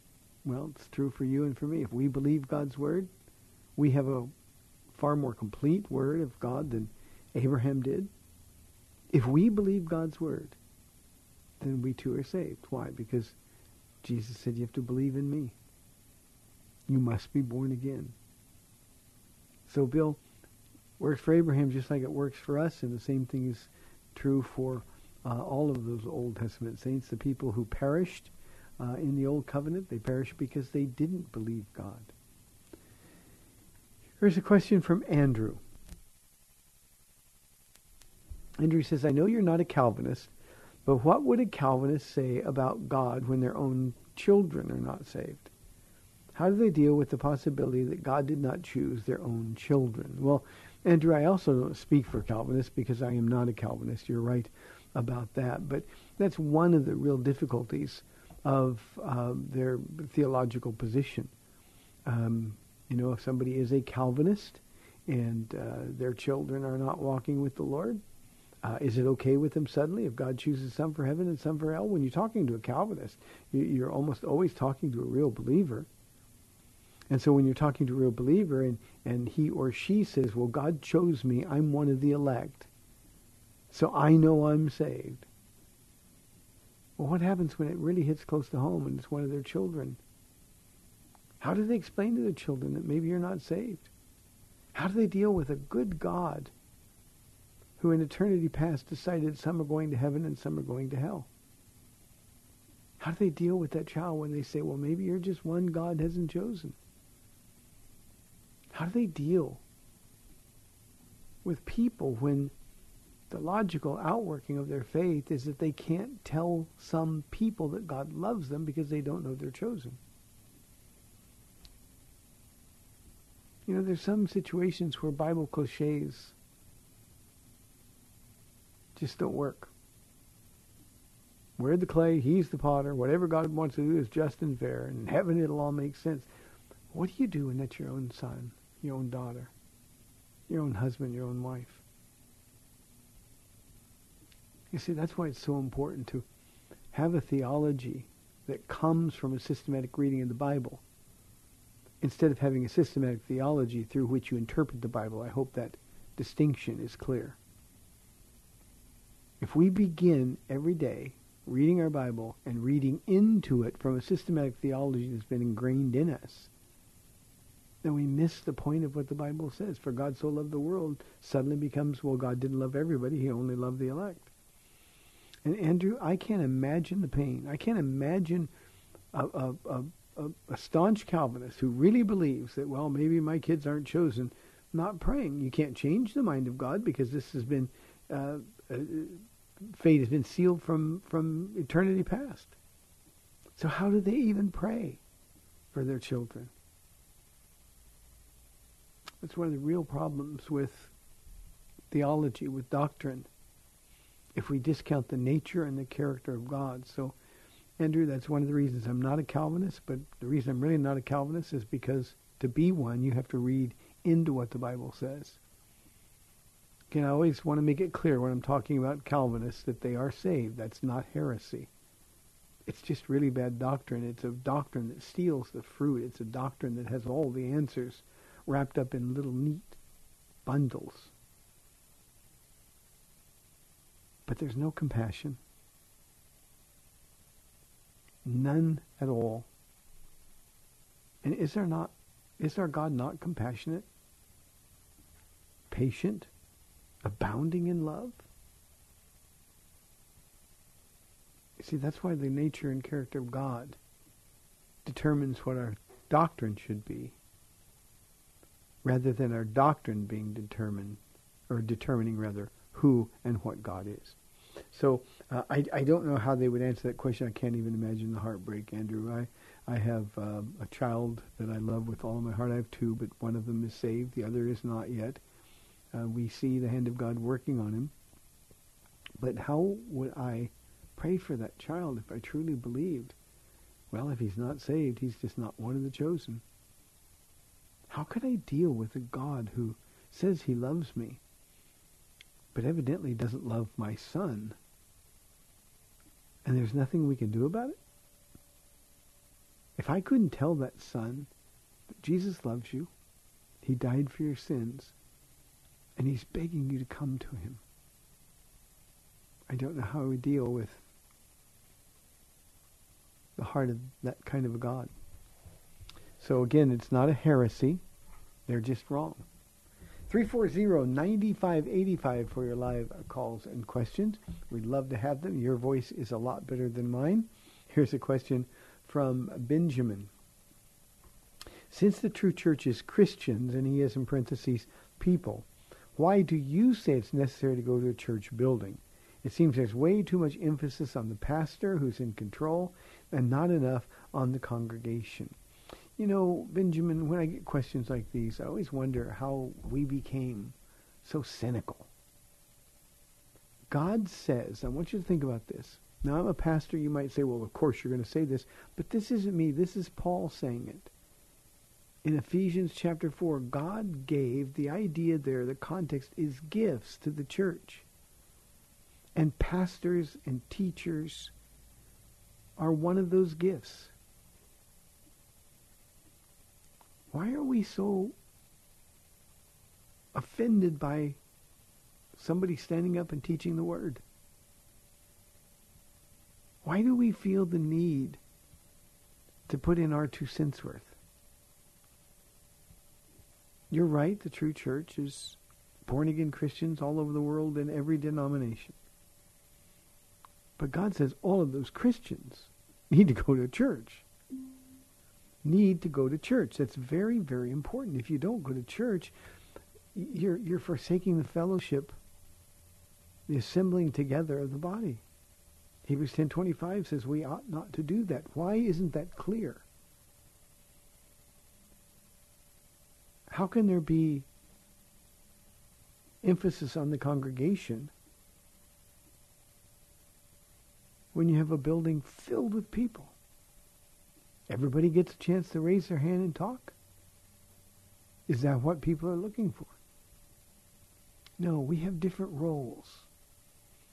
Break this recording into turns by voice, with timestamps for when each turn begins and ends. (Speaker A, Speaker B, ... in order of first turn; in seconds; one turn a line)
Speaker A: 0.4-3.1
Speaker A: 3.8-4.3
Speaker A: 4.9-8.1
Speaker A: 9.1-10.6
Speaker A: 11.6-13.3
Speaker A: 14.0-15.5
Speaker A: 16.9-18.1
Speaker A: 19.7-20.2
Speaker A: 21.0-32.1
Speaker A: 34.2-35.6
Speaker A: 38.6-40.3
Speaker A: 40.9-45.5
Speaker A: 46.3-61.3
Speaker A: 62.0-68.0
Speaker A: 68.6-75.9
Speaker A: 77.1-82.7
Speaker A: 83.7-85.2
Speaker A: 87.0-90.0
Speaker A: 91.4-93.9
Speaker A: 94.7-96.5
Speaker A: 97.8-101.3
Speaker A: 103.0-106.8
Speaker A: 108.7-109.6
Speaker A: 111.4-112.5
Speaker A: 113.3-120.0
Speaker A: 123.7-126.3
Speaker A: 128.9-129.7
Speaker A: 131.6-136.3
Speaker A: 136.9-139.5
Speaker A: 140.5-141.8
Speaker A: 144.7-146.2
Speaker A: 146.9-150.8
Speaker A: 152.0-157.4
Speaker A: 159.4-166.5
Speaker A: 167.8-174.3
Speaker A: 175.4-178.5
Speaker A: 179.1-192.5
Speaker A: 193.6-195.0
Speaker A: 195.7-196.5
Speaker A: 199.2-200.9
Speaker A: 201.9-203.3
Speaker A: 204.3-207.2
Speaker A: 207.8-215.4
Speaker A: 216.9-221.7
Speaker A: 222.7-229.8
Speaker A: 230.4-231.1
Speaker A: 234.2-235.4
Speaker A: 238.2-239.5
Speaker A: 241.2-243.8
Speaker A: 245.7-246.3
Speaker A: 247.0-248.2
Speaker A: 251.6-253.8
Speaker A: 254.8-257.1
Speaker A: 258.8-264.2
Speaker A: 264.7-275.2
Speaker A: 275.9-277.9
Speaker A: 279.2-283.1
Speaker A: 283.9-286.4
Speaker A: 287.9-291.2
Speaker A: 292.5-294.6
Speaker A: 296.4-297.8
Speaker A: 299.8-301.3
Speaker A: 302.0-302.9
Speaker A: 303.6-304.9
Speaker A: 306.0-307.6
Speaker A: 309.5-310.8
Speaker A: 313.4-314.9
Speaker A: 316.2-317.8
Speaker A: 318.5-319.2
Speaker A: 320.1-330.1
Speaker A: 331.7-345.4
Speaker A: 346.0-351.9
Speaker A: 353.7-360.9
Speaker A: 362.0-367.8
Speaker A: 369.1-371.3
Speaker A: 372.6-373.9
Speaker A: 377.1-378.1
Speaker A: 380.1-381.2
Speaker A: 382.2-384.0
Speaker A: 386.6-388.2
Speaker A: 389.5-390.9
Speaker A: 393.7-398.8
Speaker A: 400.6-404.0
Speaker A: 405.4-409.1
Speaker A: 409.9-411.9
Speaker A: 413.3-415.0
Speaker A: 415.9-419.6
Speaker A: 423.3-424.2
Speaker A: 426.2-427.9
Speaker A: 431.1-433.1
Speaker A: 434.5-436.7
Speaker A: 438.3-439.7
Speaker A: 441.4-443.1